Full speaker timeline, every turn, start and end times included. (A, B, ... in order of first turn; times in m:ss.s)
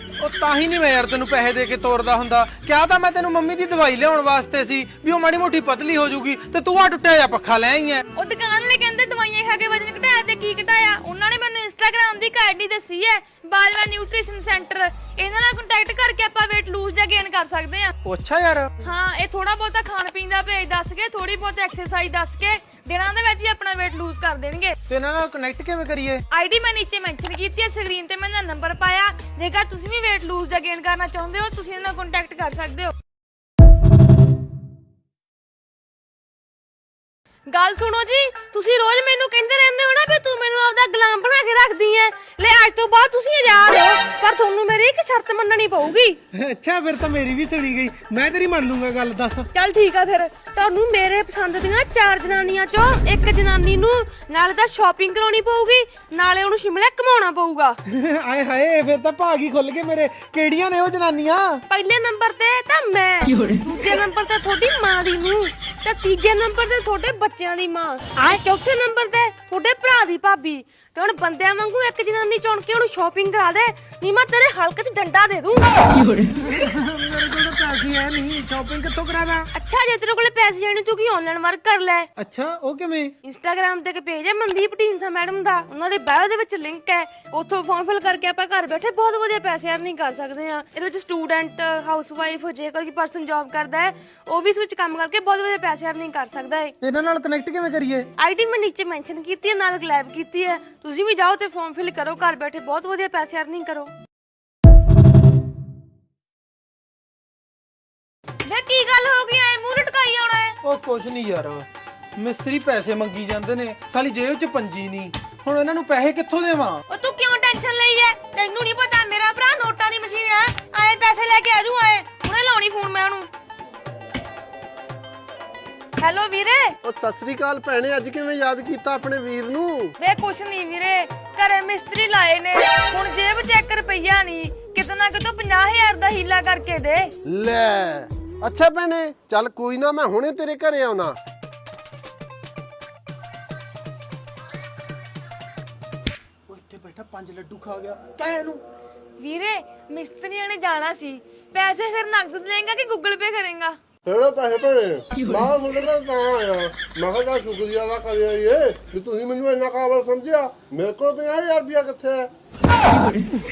0:00.2-0:08.0 A
0:08.1-0:17.9 B
0:18.0-0:18.7 A
0:18.8-0:24.8 B
0:24.9-0:26.2 A
0:26.3-0:32.9 B
0:37.5-0:46.2 B
0:46.3-0:49.5 A
0:49.5-0:57.8 B
0:57.8-1:01.6 A
1:01.7-1:16.0 B
1:16.3-1:19.5 A
1:19.5-1:22.1 B
1:22.2-1:23.1 A
1:23.2-1:36.7 B
1:36.8-1:38.1 A
1:38.2-1:43.9 B
1:48.4-1:50.6 B
1:50.6-1:56.8 A
1:56.9-2:03.3 B
2:06.0-2:06.8 B
2:06.8-2:09.9 C
2:10.0-2:17.1 B
2:17.2-2:21.2 C
2:26.5-2:28.6 A
2:29.2-2:33.8 B
2:34.0-2:42.3 C